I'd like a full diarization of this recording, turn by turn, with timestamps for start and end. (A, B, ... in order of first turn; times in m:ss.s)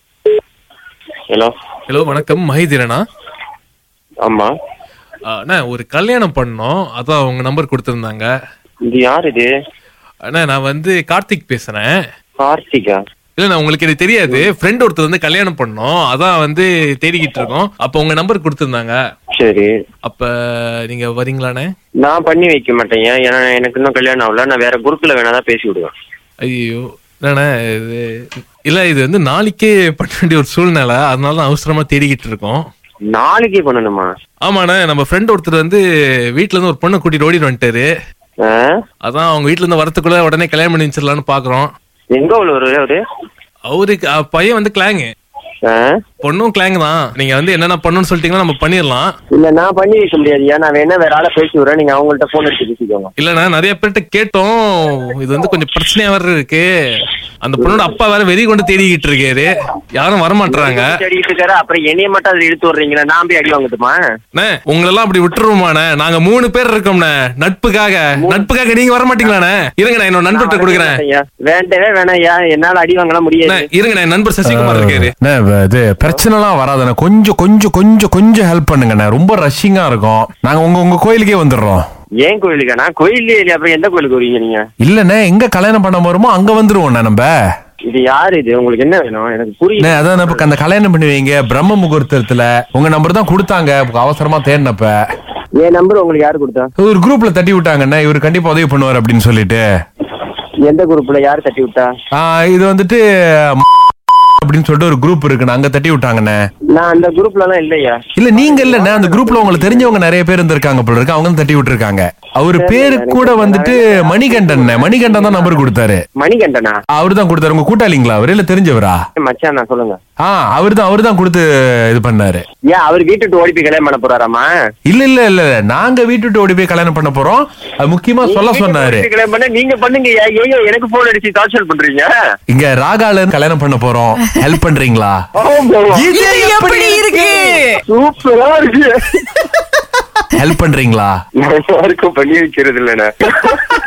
0:01.9-0:03.0 A
0:04.2-0:04.5 B
0:05.3-0:08.3 A
0:08.9-0:09.5 B
0:10.3-0:11.9 A
0:12.4-0:13.0 B
0:13.4-0:19.0 A
0:19.4-0:19.7 B
0:20.0-0:20.3 A
0:20.8-0:21.7 A
0:22.0-0:25.9 B
0:26.4-0:28.1 A
0:28.7-0:32.6 A
0:33.1-0:34.1 B
0:34.4-0:35.8 A
0:36.4-0:37.9 A
0:38.4-0:38.7 B
0:39.0-0:41.7 A
0:42.1-0:43.0 B
0:43.7-0:45.1 A
0:45.6-0:46.0 B
0:46.2-0:49.1 A
0:49.3-0:53.1 B
0:53.2-1:00.9 A
0:57.6-0:57.9 B
1:00.5-1:04.0 B
1:04.3-1:11.0 A
1:08.1-1:08.5 B
1:10.3-1:13.7 B
1:13.5-1:15.1 A
1:14.4-1:21.8 C
1:22.2-1:24.6 B
1:24.8-1:27.3 C
1:27.9-1:30.5 B
1:29.8-1:35.0 C
1:35.6-1:36.7 B
1:36.8-1:39.6 C
1:40.6-1:41.9 B
1:42.1-1:43.6 C
1:44.4-1:46.4 C
1:46.8-1:50.0 B
1:48.2-1:56.0 C
1:52.6-1:56.8 B
1:56.9-1:59.0 C
1:59.2-2:00.0 B
2:00.2-2:02.4 C
2:02.7-2:04.5 B
2:04.8-2:09.1 C
2:08.2-2:12.1 B
2:12.5-2:15.2 C
2:15.4-2:16.1 B
2:15.9-2:16.9 C
2:16.1-2:17.8 A
2:17.9-2:19.1 B
2:20.3-2:21.2 C
2:21.4-2:23.6 B